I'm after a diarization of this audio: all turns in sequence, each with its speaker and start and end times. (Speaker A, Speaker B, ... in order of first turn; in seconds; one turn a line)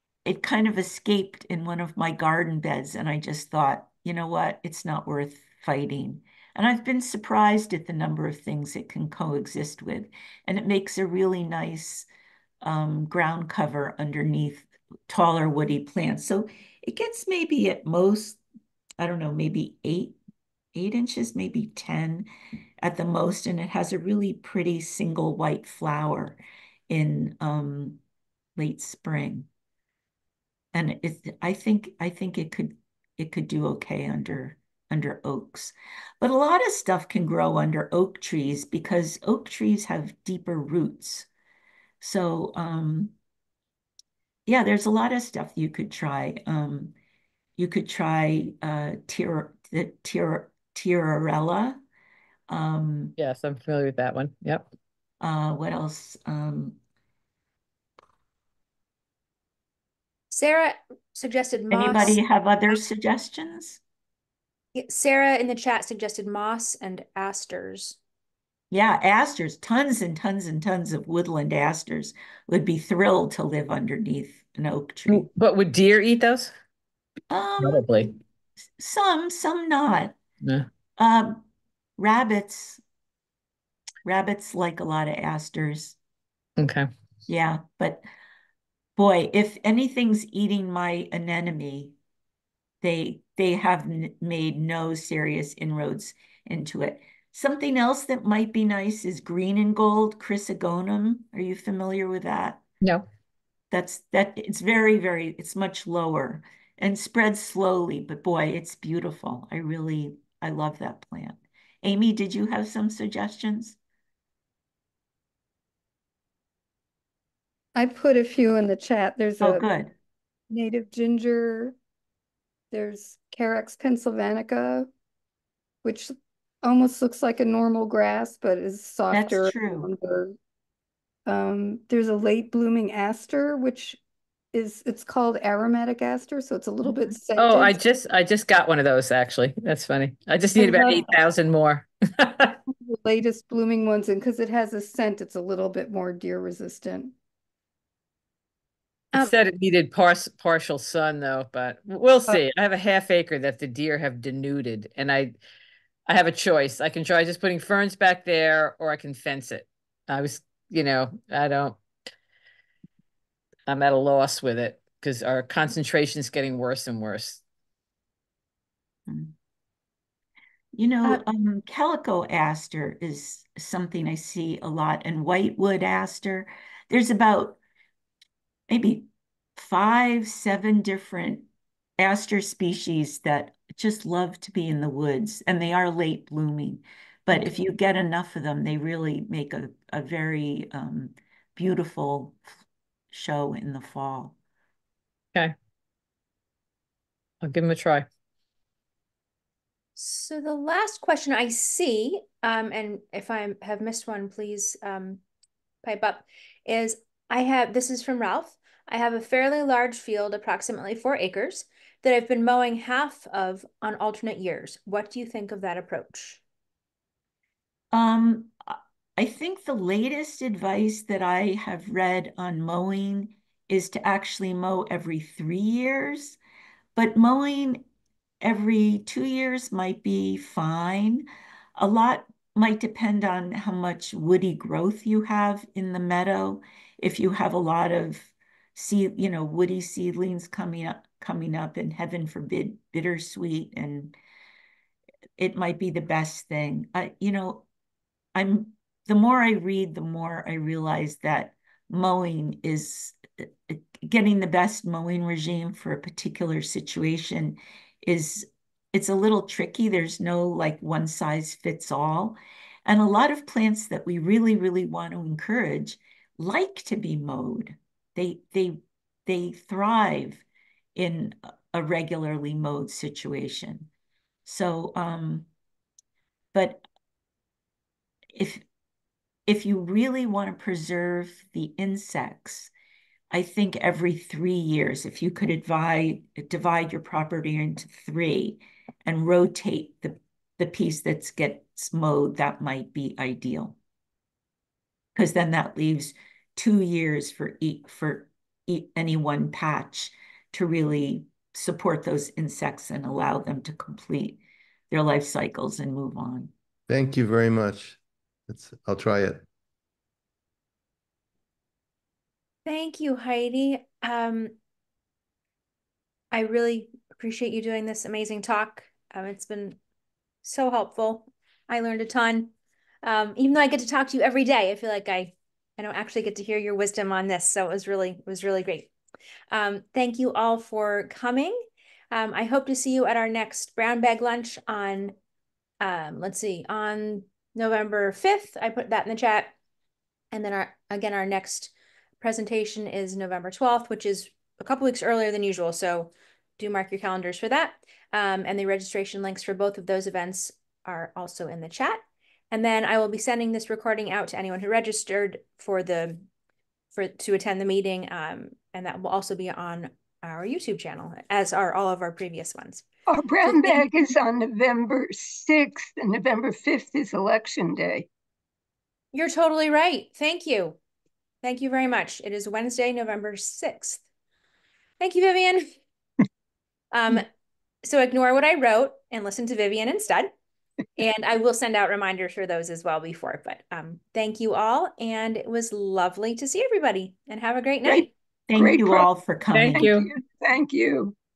Speaker A: 0.2-12.1
Speaker A: 12.6-18.4
Speaker A: 19.0-20.2
Speaker A: 20.7-22.3
Speaker A: 22.8-28.0
Speaker A: 28.6-29.5
Speaker A: 30.7-41.3
Speaker A: 42.0-43.1
Speaker A: 44.5-46.9
Speaker A: 47.6-51.8
Speaker A: 52.5-53.1
Speaker B: 53.2-54.7
Speaker A: 55.2-56.8
Speaker C: 60.3-62.2
Speaker A: 61.7-63.8
Speaker C: 64.7-68.0
Speaker A: 68.7-75.3
Speaker B: 75.1-76.5
Speaker A: 77.3-78.1
Speaker B: 77.6-78.1
Speaker A: 78.8-80.2
Speaker A: 81.0-81.4
Speaker A: 82.0-82.8
Speaker A: 84.0-86.0
Speaker B: 86.6-86.9
Speaker A: 87.3-88.0
Speaker A: 89.0-91.9
Speaker A: 92.8-102.6
Speaker A: 103.7-113.8
Speaker D: 117.7-119.7
Speaker A: 119.4-119.9
Speaker D: 120.5-121.7
Speaker D: 122.7-124.9
Speaker D: 125.8-130.3
Speaker A: 129.1-129.9
Speaker D: 131.2-134.0
Speaker D: 134.5-137.8
Speaker B: 137.3-142.6
Speaker D: 140.6-141.1
Speaker D: 142.7-147.1
Speaker B: 149.1-155.3
Speaker B: 156.1-161.8
Speaker B: 163.7-167.4
Speaker A: 169.1-169.3
Speaker A: 170.7-177.6
Speaker A: 178.7-181.5
Speaker A: 182.0-192.4
Speaker A: 193.1-194.3
Speaker B: 197.4-198.1
Speaker C: 200.0-205.2
Speaker C: 205.8-216.4
Speaker A: 217.9-226.4
Speaker A: 226.9-227.8
Speaker A: 228.4-231.2
Speaker A: 231.8-244.1
Speaker A: 245.4-247.7
Speaker A: 248.3-273.9
Speaker A: 274.4-275.5
Speaker A: 276.5-276.8
Speaker A: 278.3-278.6
Speaker A: 279.5-282.7
Speaker A: 283.3-293.8
Speaker A: 295.1-306.5
Speaker E: 306.9-309.4
Speaker C: 312.6-314.5
Speaker C: 316.3-319.8
Speaker C: 320.4-322.5
Speaker C: 323.0-328.9
Speaker C: 329.5-331.6
Speaker C: 332.1-335.1
Speaker C: 335.8-339.5
Speaker C: 340.3-356.2
Speaker C: 356.9-362.9
Speaker F: 363.1-368.1
Speaker C: 363.4-363.8
Speaker C: 369.1-370.8
Speaker C: 371.4-374.0
Speaker C: 375.0-375.7
Speaker C: 376.9-377.3
Speaker C: 377.8-380.3
Speaker C: 381.0-388.1
Speaker A: 387.8-389.9
Speaker F: 388.5-389.1
Speaker B: 389.5-390.1
Speaker F: 389.7-391.1